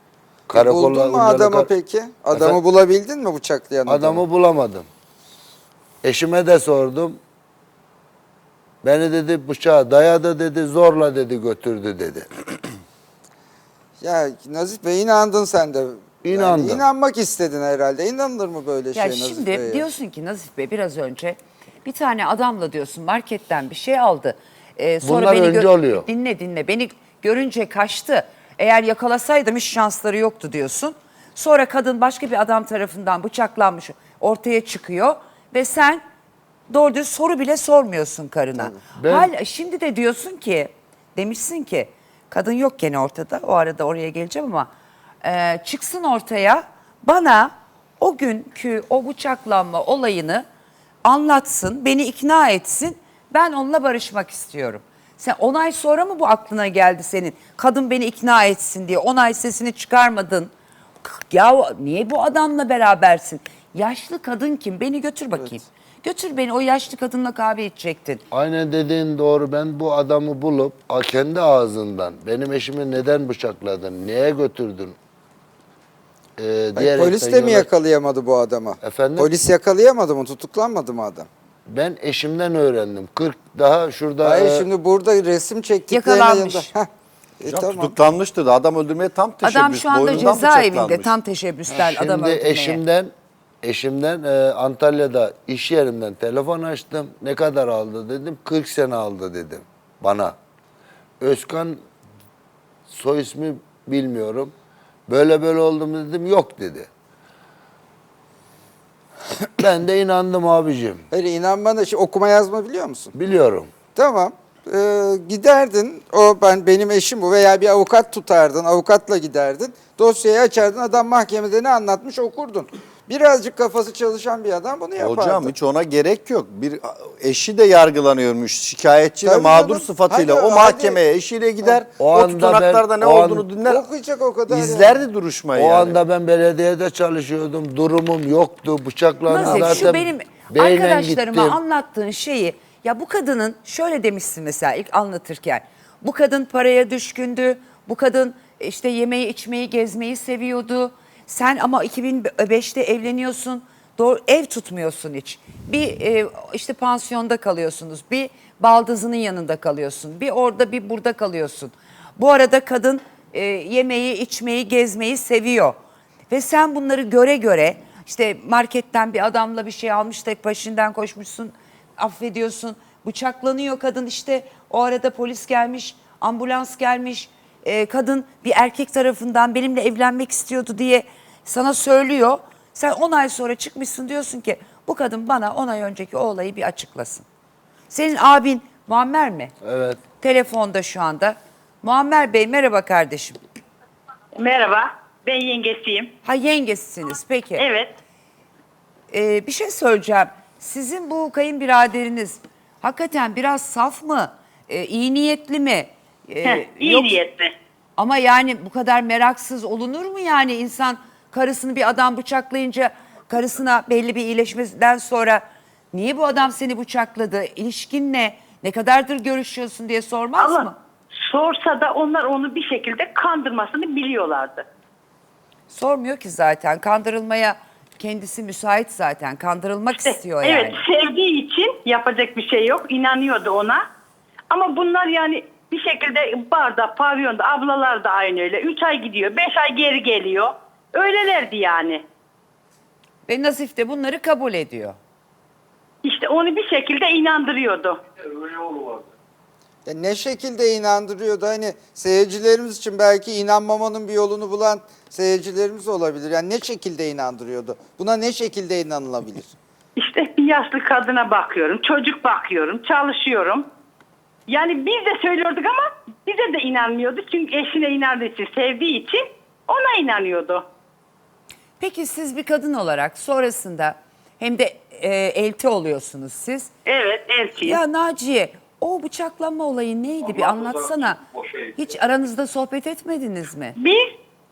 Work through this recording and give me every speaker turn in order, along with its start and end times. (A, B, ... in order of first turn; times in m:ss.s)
0:00.5-0:01.7 A
0:00.5-0:04.2 B
0:02.3-0:02.6 A
0:03.8-0:04.9 A
0:06.0-0:07.2 A
0:08.8-0:12.3 A
0:14.0-0:19.8 B
0:16.2-0:16.8 A
0:18.9-0:36.0 C
0:25.0-0:26.1 A
0:36.7-0:44.7 C
0:38.9-0:39.3 A
0:45.2-0:50.4 C
0:51.0-1:00.5 C
1:01.0-1:08.2 C
1:08.3-1:15.0 A
1:16.4-1:17.7 A
1:16.7-1:21.3 B
1:18.8-1:19.3 A
1:21.7-1:24.7 A
1:24.2-1:26.9 B
1:25.9-1:26.7 C
1:27.4-1:27.9 B
1:27.4-1:31.1 D
1:29.4-1:32.8 C
1:31.7-1:33.1 A
1:33.6-1:40.3 A
1:41.2-1:41.8 A
1:42.9-1:44.5 A
1:45.1-1:46.9 A
1:49.6-1:51.0 A
1:51.1-1:53.1 B
1:53.1-1:53.7 A
1:53.9-2:05.5 B
2:05.0-2:13.8 D
2:09.2-2:11.0 B
2:12.0-2:13.5 A
2:13.6-2:15.0 B
2:14.5-2:16.0 D
2:15.5-2:21.6 A
2:19.3-2:45.8 C
2:19.4-2:19.9 D
2:46.3-3:07.2 C
3:07.9-3:09.5 C
3:09.6-3:10.0 A
3:10.2-3:13.4 C
3:14.3-3:16.1 E
3:16.2-3:17.6 C
3:17.6-3:18.0 E
3:19.1-3:27.2 C
3:26.4-3:27.5 E
3:28.0-3:40.7 C
3:40.4-3:40.7 E
3:41.2-3:44.6 E
3:45.7-3:50.8 C
3:50.0-3:53.8 E
3:54.5-4:02.0 E
4:03.3-4:05.0 C
4:06.0-4:08.0 E
4:09.8-4:19.5 B
4:20.0-4:23.6 E
4:24.5-4:30.6 E
4:31.8-4:36.7 C
4:36.8-4:37.8 E
4:37.6-4:43.8 C
4:43.8-4:44.1 E